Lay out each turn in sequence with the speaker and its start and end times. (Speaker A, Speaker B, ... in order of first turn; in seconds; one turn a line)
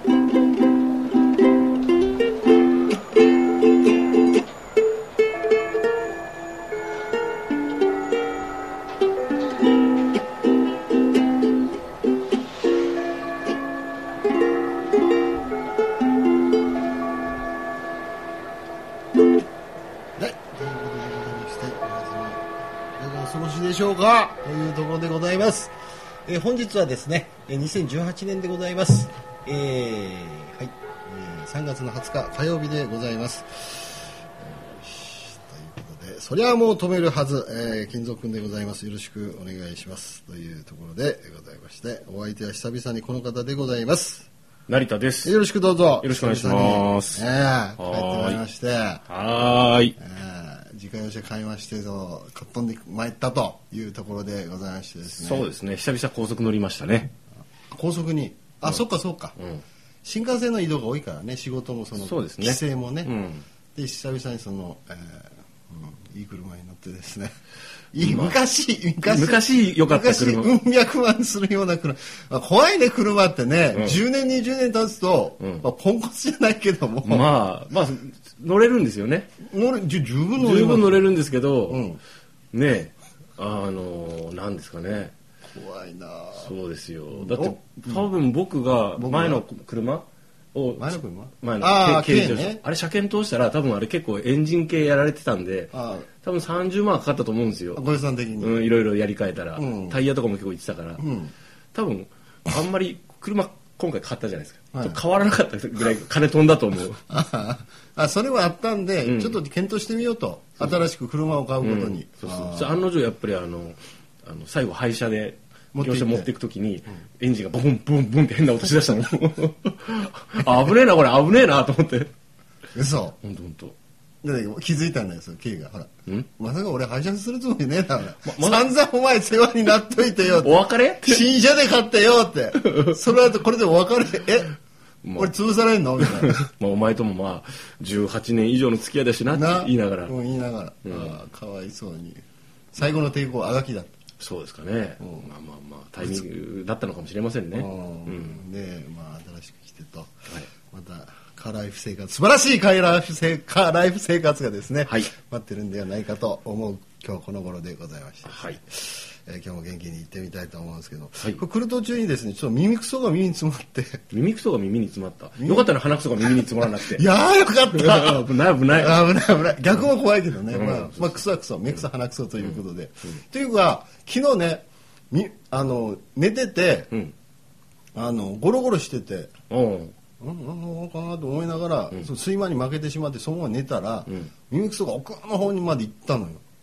Speaker A: 20.2-22.4
Speaker A: 23.0-25.7
Speaker A: 26.2-44.3
Speaker B: 44.7-45.4
Speaker A: 45.2-49.1
Speaker B: 46.0-48.4
Speaker B: 49.1-49.9
Speaker A: 50.0-55.5
Speaker B: 55.1-57.1
Speaker A: 57.7-59.4
Speaker B: 59.4-59.6
Speaker A: 60.0-63.1
Speaker B: 62.0-63.4
Speaker A: 63.7-67.3
Speaker A: 67.9-77.3
Speaker B: 68.0-68.4
Speaker B: 69.0-70.5
Speaker B: 73.7-74.0
Speaker B: 75.4-75.7
Speaker B: 77.0-79.3
Speaker A: 79.4-81.2
Speaker B: 80.4-81.8
Speaker A: 81.7-82.0
Speaker B: 82.5-85.1
Speaker A: 85.5-86.5
Speaker B: 86.3-97.8
Speaker A: 87.1-88.1
Speaker A: 89.0-89.4
Speaker A: 90.8-92.6
Speaker A: 95.7-96.1
Speaker A: 97.8-98.7
Speaker B: 98.4-101.0
Speaker A: 99.5-100.0
Speaker A: 101.0-101.3
Speaker B: 101.7-107.0
Speaker A: 104.7-105.0
Speaker A: 107.1-112.8
Speaker B: 109.0-109.4
Speaker B: 111.6-122.1
Speaker A: 115.7-116.3
Speaker A: 122.7-123.2
Speaker B: 123.2-123.8
Speaker A: 124.2-134.6
Speaker B: 128.2-128.6
Speaker B: 130.3-131.2
Speaker B: 135.0-135.3
Speaker A: 135.2-136.4
Speaker B: 136.0-140.1
Speaker A: 139.3-142.2
Speaker B: 140.8-141.2
Speaker A: 142.7-143.9
Speaker B: 144.2-148.4
Speaker A: 145.0-145.3
Speaker A: 147.5-164.1
Speaker B: 154.8-155.1
Speaker B: 158.2-158.6
Speaker B: 164.1-167.1
Speaker A: 165.4-176.9
Speaker B: 167.7-169.1
Speaker B: 170.5-171.2
Speaker A: 177.9-179.3
Speaker B: 179.5-179.9
Speaker A: 180.2-186.4